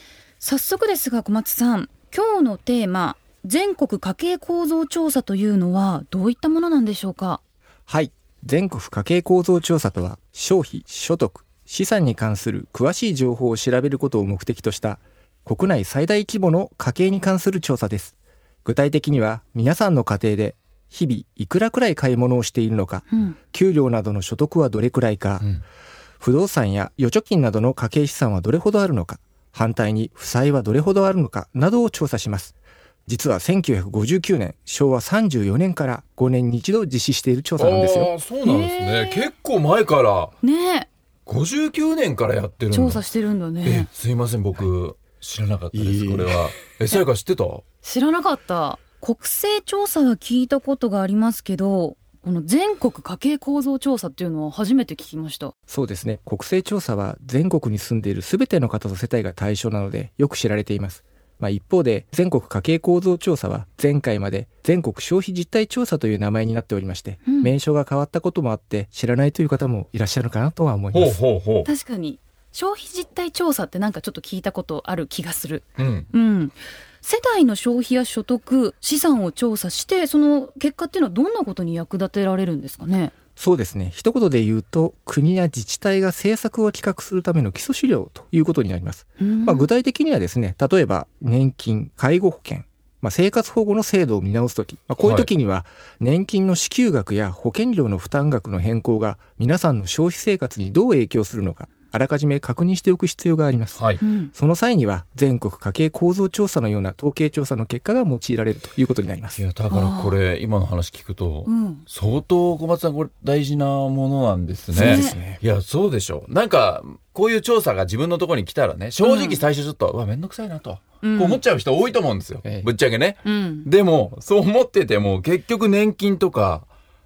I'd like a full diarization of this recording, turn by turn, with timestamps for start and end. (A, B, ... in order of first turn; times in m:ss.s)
0:00.4-0:07.4 A
0:07.9-0:18.1 B
0:18.6-0:25.5 B
0:26.2-0:32.5 B
0:33.1-0:38.1 B
0:37.6-0:40.3 C
0:38.4-0:39.3 A
0:40.4-0:40.9 A
0:41.3-0:43.0 C
0:42.7-0:43.9 A
0:43.6-0:47.6 C
0:45.7-0:46.4 B
0:47.8-0:55.5 A
0:55.7-1:11.2 B
1:07.3-1:07.5 A
1:10.9-1:11.7 C
1:11.6-1:23.1 A
1:15.8-1:16.1 C
1:23.4-1:49.4 B
1:29.2-1:29.7 A
1:35.0-1:35.3 C
1:43.8-1:44.0 C
1:44.0-1:44.3 A
1:49.4-2:06.7 C
1:49.7-1:50.2 A
1:51.4-1:51.8 A
1:54.7-1:55.4 B
1:54.8-1:55.2 A
1:59.0-1:59.4 A
2:01.0-2:01.4 A
2:03.2-2:03.7 A